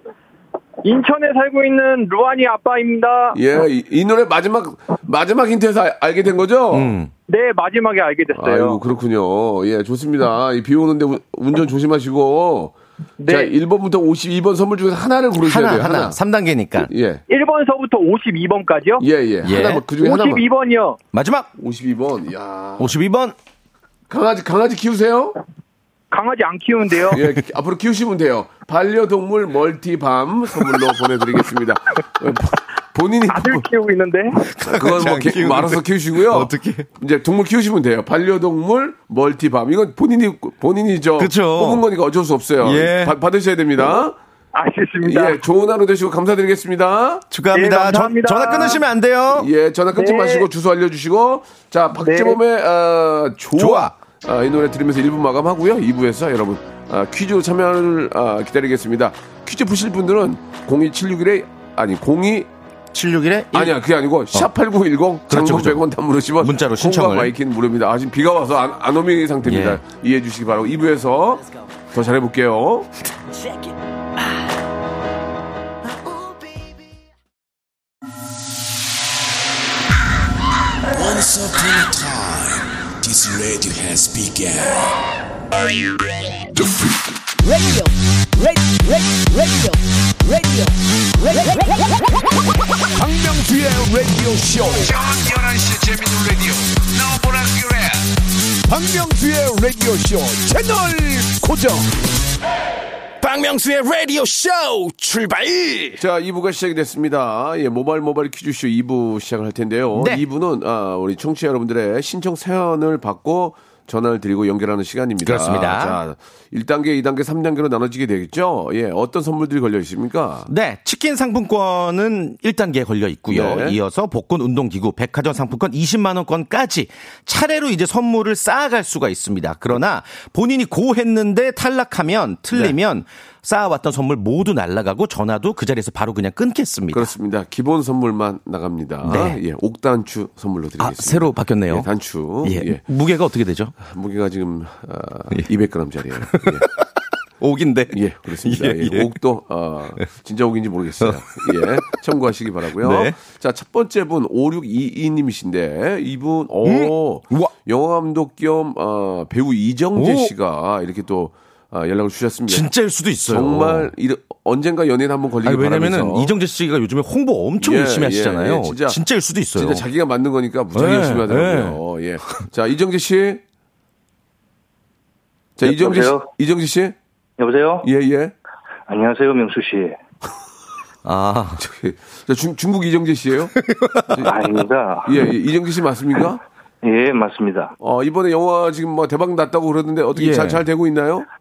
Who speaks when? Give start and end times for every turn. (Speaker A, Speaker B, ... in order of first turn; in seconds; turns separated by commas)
Speaker A: 0.8-3.4, Speaker B: 3.3-6.9, Speaker C: 6.7-7.1, Speaker A: 7.3-8.8, Speaker B: 8.3-12.7, Speaker A: 13.2-13.5, Speaker B: 13.2-16.2, Speaker C: 15.4-16.9, Speaker B: 16.9-17.2, Speaker A: 17.3-19.0, Speaker B: 19.0-20.4, Speaker C: 19.4-19.8, Speaker A: 19.9-21.0, Speaker C: 21.1-21.5, Speaker B: 21.6-22.9, Speaker C: 22.8-23.3, Speaker B: 24.1-25.4, Speaker A: 26.1-27.2, Speaker B: 27.1-33.6, Speaker A: 33.3-34.4, Speaker C: 34.5-36.9, Speaker B: 34.7-44.2, Speaker C: 41.2-41.8, Speaker C: 42.6-43.2, Speaker A: 44.5-45.4, Speaker B: 45.0-47.2, Speaker C: 47.3-49.5, Speaker A: 47.5-48.8, Speaker B: 49.3-62.5, Speaker A: 49.9-50.5, Speaker A: 52.0-52.4, Speaker C: 53.6-53.9, Speaker C: 62.9-63.8, Speaker B: 63.5-72.9, Speaker C: 65.3-65.8, Speaker C: 66.4-67.3, Speaker C: 69.4-69.8, Speaker D: 80.9-84.9, Speaker D: 86.6-87.1, Speaker E: 87.4-87.8, Speaker E: 88.4-89.7, Speaker E: 90.3-90.7, Speaker E: 91.3-91.9, Speaker D: 93.0-98.0, Speaker D: 99.5-100.7, Speaker D: 101.3-101.6, Speaker E: 103.2-105.9, Speaker B: 106.0-120.5, Speaker C: 109.9-110.2, Speaker C: 115.2-116.0, Speaker C: 120.5-137.1, Speaker B: 123.3-123.8, Speaker B: 136.9-142.8, Speaker C: 139.0-139.4, Speaker C: 140.8-141.9, Speaker C: 142.4-143.7, Speaker B: 143.8-146.6, Speaker C: 146.2-146.8, Speaker C: 147.4-149.1, Speaker B: 147.9-162.7, Speaker C: 151.0-151.8, Speaker C: 152.8-153.2, Speaker C: 156.6-157.5, Speaker C: 159.9-160.3, Speaker C: 162.5-163.9, Speaker B: 163.2-166.3, Speaker C: 165.4-169.8, Speaker B: 167.6-169.0, Speaker B: 169.5-173.4, Speaker C: 170.7-171.8, Speaker B: 175.6-176.9, Speaker F: 175.6-176.3, Speaker F: 177.4-177.9, Speaker B: 177.8-178.3, Speaker F: 178.9-180.0, Speaker C: 181.0-181.6, Speaker B: 181.6-183.6, Speaker C: 183.7-184.2, Speaker F: 184.2-185.1, Speaker B: 185.0-186.4, Speaker F: 186.8-187.7, Speaker B: 187.8-191.3, Speaker C: 190.1-190.6